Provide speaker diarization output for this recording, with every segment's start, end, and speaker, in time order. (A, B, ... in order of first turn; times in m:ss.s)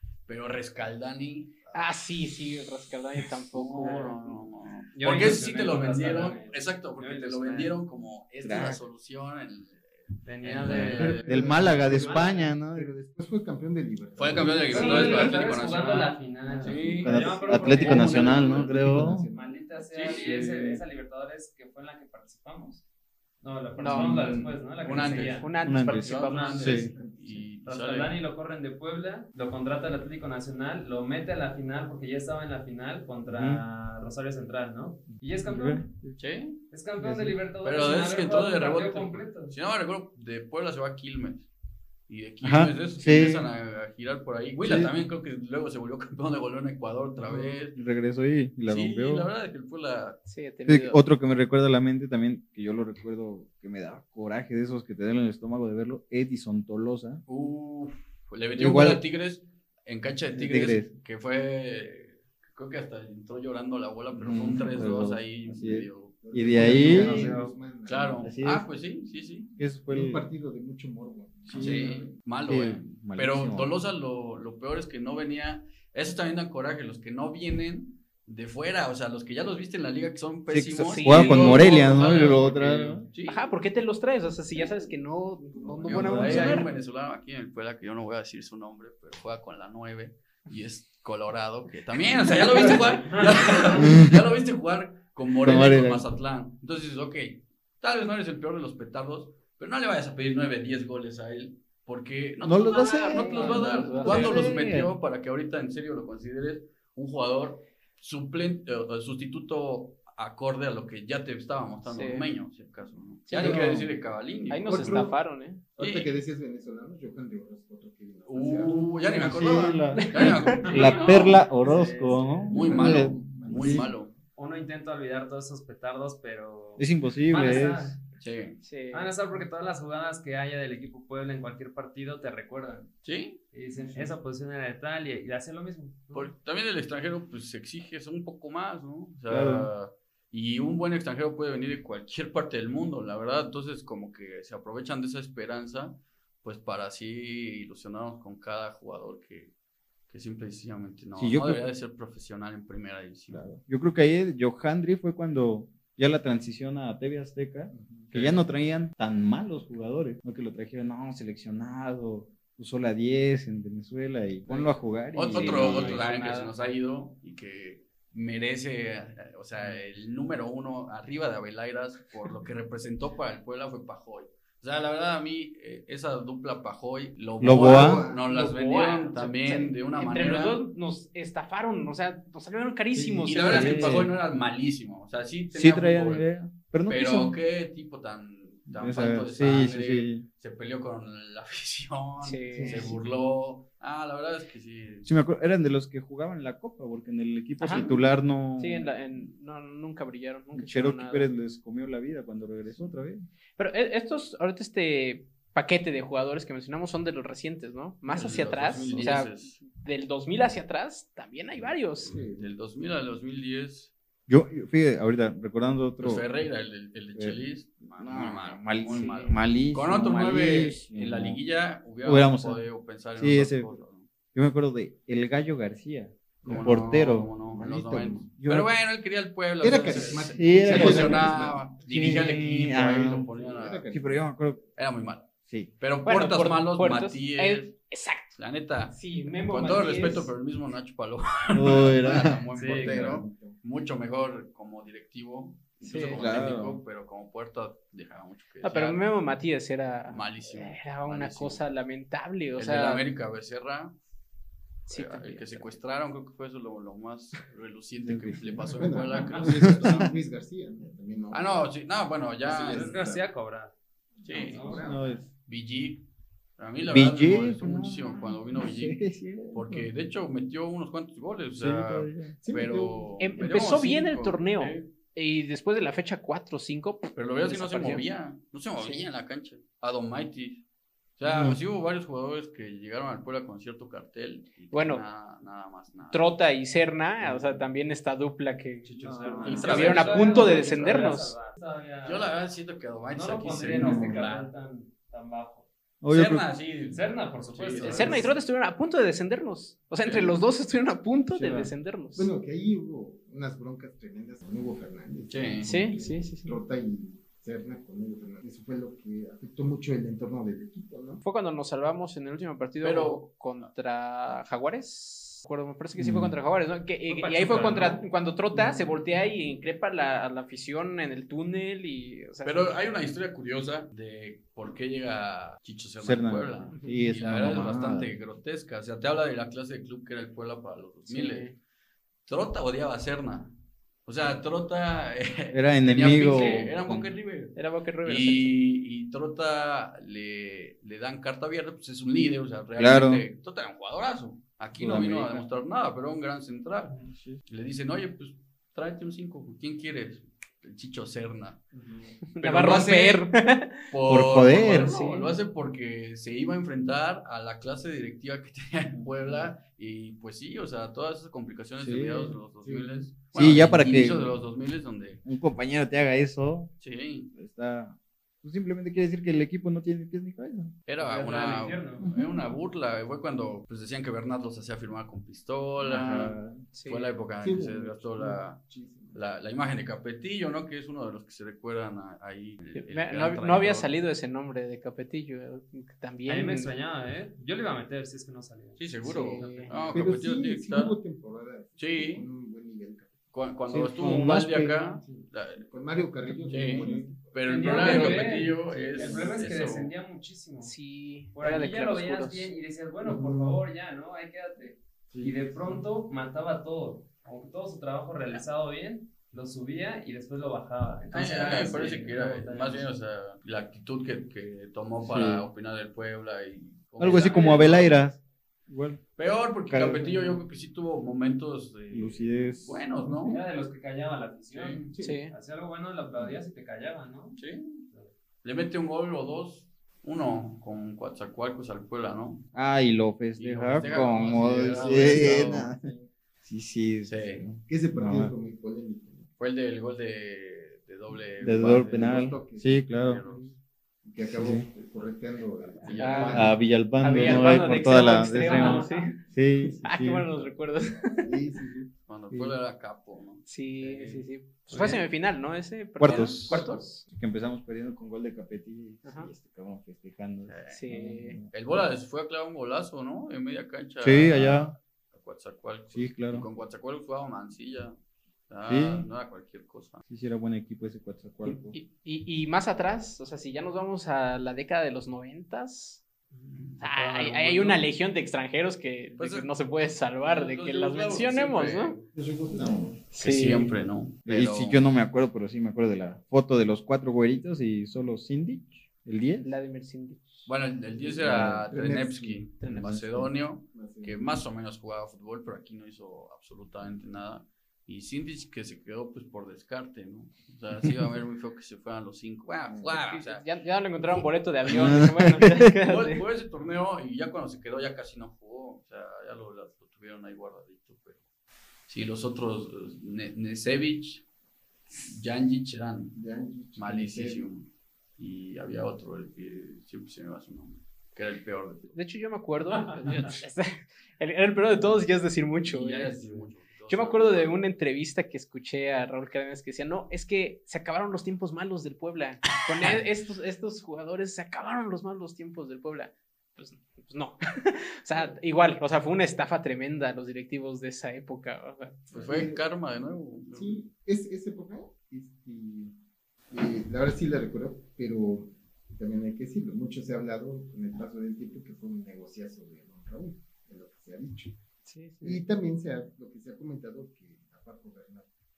0:00.3-0:01.9 A
0:01.7-0:04.2 B
0:03.5-0:11.3 A
0:03.8-0:04.3 C
0:04.9-0:07.8 C
0:08.4-0:08.8 D
0:08.5-0:08.8 E
0:10.2-0:12.5 C
0:10.6-0:12.9 D
0:10.6-0:19.6 E
0:14.1-0:17.2 A
0:14.7-0:22.8 C
0:14.8-0:15.4 B
0:16.9-0:19.3 D
0:17.7-0:18.8 A
0:19.9-0:20.5 A
0:20.2-0:20.8 D
0:23.4-0:26.9 C
0:23.8-0:24.2 B
0:23.9-0:24.5 D
0:24.8-0:28.2 A
0:25.3-0:26.6 B
0:25.6-0:26.9 D
0:26.6-0:27.5 E
0:27.6-0:35.9 C
0:33.3-0:33.6 D
0:35.4-0:36.2 D
0:36.2-0:36.6 A
0:36.7-0:39.6 C
0:37.0-0:37.4 D
0:37.6-0:41.5 A
0:42.1-0:47.8 A
0:42.4-0:43.5 D
0:44.6-0:44.9 D
0:47.3-0:47.6 E
0:47.4-0:49.3 D
0:48.7-0:50.2 A
0:50.2-0:51.0 B
0:50.7-0:57.2 D
0:57.3-1:06.2 A
0:58.6-0:59.0 D
1:00.4-1:00.9 D
1:04.1-1:07.4 D
1:06.2-1:08.3 E
1:06.6-1:07.5 C
1:06.9-1:07.2 A
1:07.8-1:09.5 A
1:08.2-1:08.7 D
1:09.6-1:10.2 D
1:09.9-1:12.2 E
1:11.5-1:13.7 D
1:11.6-1:23.5 A
1:20.5-1:23.1 D
1:20.8-1:22.4 B
1:23.3-1:26.7 B
1:25.5-1:26.6 E
1:25.8-1:55.1 A
1:25.9-1:26.7 D
1:33.8-1:34.2 D
1:35.4-1:36.1 D
1:42.4-1:44.9 D
1:42.7-1:44.5 B
1:51.8-1:52.3 B
1:53.3-1:53.6 B
1:53.3-1:53.9 D
1:54.5-1:55.6 B
1:54.7-1:55.2 E
1:55.8-1:59.0 E
1:55.8-1:56.1 A
1:58.3-2:01.4 A
1:59.1-2:03.9 D
1:59.9-2:00.6 B
2:00.6-2:02.6 C
2:02.4-2:04.2 E
2:02.5-2:04.1 A
2:04.4-2:08.0 C
2:06.8-2:08.0 D
2:08.2-2:08.6 A
2:08.6-2:09.1 B
2:08.9-2:12.9 C
2:13.0-2:13.4 A
2:13.5-2:16.3 C
2:13.7-2:14.1 E
2:16.1-2:29.5 A
2:19.3-2:19.7 D
2:30.1-2:33.4 A
2:31.2-2:31.6 D
2:33.3-2:46.1 D
2:37.7-2:38.1 E
2:38.1-2:38.4 A
2:45.1-3:00.6 A
2:45.3-2:46.5 B
2:45.4-2:45.9 E
2:57.4-2:58.0 D
2:57.5-2:58.3 E
2:58.3-3:04.0 B
3:03.0-3:04.1 D
3:03.3-3:06.3 A
3:05.5-3:07.4 D
3:06.9-3:15.1 A
3:08.7-3:10.2 D
3:12.2-3:12.9 B
3:12.5-3:13.0 E
3:15.0-3:19.3 D
3:17.6-3:17.9 B
3:17.7-3:18.0 E
3:18.6-3:21.3 B
3:20.5-3:23.2 D
3:23.6-3:32.2 B
3:28.1-3:29.6 A
3:31.6-3:32.5 E
3:32.4-3:33.9 A
3:34.3-3:36.2 D
3:36.0-3:44.1 A
3:38.0-3:41.4 D
3:38.8-3:39.4 B
3:42.0-3:43.7 D
3:44.3-3:47.3 D
3:46.4-3:48.3 E
3:46.4-3:53.8 A
3:48.4-3:48.7 D
3:49.6-3:54.6 E
3:50.3-3:53.3 D
3:53.9-3:54.6 D
3:54.8-3:55.3 A
3:55.8-3:57.8 A
3:56.0-3:58.4 B
3:58.4-4:09.1 A
3:58.9-4:00.3 B
4:01.5-4:02.4 D
4:02.5-4:03.2 C
4:02.7-4:03.6 E
4:05.8-4:06.2 B
4:05.9-4:06.8 D
4:08.6-4:13.0 B
4:10.1-4:11.6 A
4:12.6-4:14.0 A
4:14.9-4:20.1 A
4:14.9-4:15.8 B
4:18.0-4:18.8 D
4:18.7-4:21.7 E
4:19.5-4:20.0 D
4:21.3-4:22.9 A
4:22.4-4:23.3 E
4:22.7-4:23.7 C
4:24.1-4:25.2 E
4:24.2-4:24.8 A
4:24.3-4:24.9 C
4:24.8-4:25.3 D
4:25.4-4:26.1 A
4:26.6-4:34.9 A
4:26.8-4:29.9 D
4:31.6-4:32.4 D
4:32.4-4:33.3 E
4:33.2-4:38.0 B
4:37.2-4:40.6 A
4:38.8-4:39.0 B
4:41.2-4:46.3 A
4:41.2-4:41.6 D
4:44.7-4:45.0 B
4:46.1-4:51.3 B
4:48.8-4:52.3 C
4:49.0-4:49.9 D
4:49.4-4:50.6 A
4:52.0-4:54.5 A
4:53.1-4:55.7 C
4:53.7-4:54.2 D
4:53.8-4:54.2 E
4:56.0-4:56.5 D
4:56.1-4:58.2 A
4:56.6-4:58.3 C
4:57.8-5:02.3 B
5:00.0-5:00.3 A
5:01.3-5:01.7 D
5:02.1-5:11.2 E
5:05.3-5:05.7 A
5:05.6-5:06.6 B
5:11.2-5:22.8 B
5:12.8-5:13.2 A
5:16.0-5:16.3 D
5:17.1-5:18.1 C
5:22.4-5:31.6 A
5:26.0-5:28.1 D
5:26.7-5:27.0 B
5:31.1-5:31.6 B
5:32.2-5:33.5 A
5:34.0-5:51.6 A
5:35.5-5:37.1 D
5:37.5-5:38.6 B
5:42.8-5:43.2 D
5:44.8-5:45.4 D
5:47.0-5:47.4 D
5:51.7-5:52.2 E
5:52.3-5:53.8 B
5:52.4-5:53.3 A
5:53.9-6:05.2 A
5:54.1-5:54.9 D
5:54.9-5:55.4 B
6:01.8-6:02.4 D
6:02.6-6:03.1 E
6:03.3-6:04.3 D
6:05.2-6:06.7 D
6:06.8-6:07.3 A
6:07.3-6:10.8 D
6:10.8-6:23.9 A
6:10.9-6:12.1 C
6:15.8-6:16.6 D
6:16.7-6:17.1 B
6:17.4-6:19.2 E
6:22.7-6:26.7 B
6:26.2-6:30.1 C
6:28.8-6:31.0 A
6:29.0-6:29.7 B
6:29.9-6:33.2 E
6:31.8-6:32.3 A
6:33.3-6:35.7 A
6:33.7-6:34.8 D
6:35.5-6:39.3 E
6:36.2-6:37.1 D
6:36.5-6:39.9 A
6:37.4-6:40.7 C
6:37.7-6:38.2 B
6:40.6-6:42.5 B
6:41.3-6:52.9 C
6:43.0-6:43.6 E
6:45.1-6:45.8 E
6:51.1-6:58.0 A
6:55.0-6:55.5 D
6:57.0-6:59.0 D
6:57.1-6:57.7 C
6:59.2-7:03.4 A
6:59.7-7:00.3 D
7:01.9-7:03.4 D
7:03.3-7:08.1 C
7:04.5-7:04.8 A
7:04.9-7:05.2 E
7:05.0-7:05.3 B
7:07.4-7:07.8 A
7:08.4-7:12.5 A
7:12.5-7:18.3 D
7:13.4-7:15.7 A
7:13.8-7:16.1 E
7:17.0-7:17.5 A
7:17.6-7:19.3 E
7:19.4-7:22.3 A
7:21.4-7:23.2 D
7:21.6-7:22.8 E
7:22.8-7:23.5 A
7:23.2-7:23.5 B
7:24.0-7:26.6 E
7:24.3-7:24.7 D
7:25.8-7:26.5 A
7:25.9-7:26.5 B
7:26.3-7:30.5 D
7:27.0-7:29.2 C
7:27.0-7:29.2 B
7:29.7-7:31.3 B
7:31.2-7:31.9 E
7:32.1-7:33.5 A
7:32.3-7:32.6 D
7:33.4-7:37.0 B
7:34.0-7:35.0 C
7:36.0-7:36.8 A
7:36.0-7:41.8 D
7:39.0-7:39.3 B
7:40.4-7:40.9 A
7:40.7-7:41.4 B
7:41.5-7:48.0 A
7:44.0-7:44.8 D
7:45.9-7:46.5 D
7:48.5-7:50.0 A
7:48.6-7:49.1 D
7:50.0-7:51.8 D
7:51.4-7:56.0 B
7:56.3-7:57.8 C
7:56.8-8:02.0 B
7:59.2-7:59.5 A
8:00.2-8:02.0 A
8:02.1-8:03.0 E
8:02.6-8:02.9 D
8:03.1-8:03.8 B
8:03.2-8:04.8 A
8:04.2-8:09.5 D
8:09.4-8:10.5 B
8:10.4-8:23.4 A
8:11.0-8:14.4 E
8:11.2-8:11.6 D
8:12.6-8:13.2 B
8:23.0-8:26.2 B
8:24.6-8:25.7 D
8:25.8-8:31.2 A
8:31.9-8:34.2 A
8:34.9-8:36.2 A
8:36.1-8:37.4 E
8:36.8-8:42.0 A
8:41.9-8:46.2 B
8:43.1-8:43.3 C
8:45.6-8:47.6 A
8:46.0-8:46.5 C
8:46.9-9:02.0 B
9:02.1-9:02.6 E
9:02.1-9:03.8 A
9:03.5-9:05.9 E
9:06.5-9:14.6 E
9:14.8-9:15.4 B
9:15.2-9:18.3 E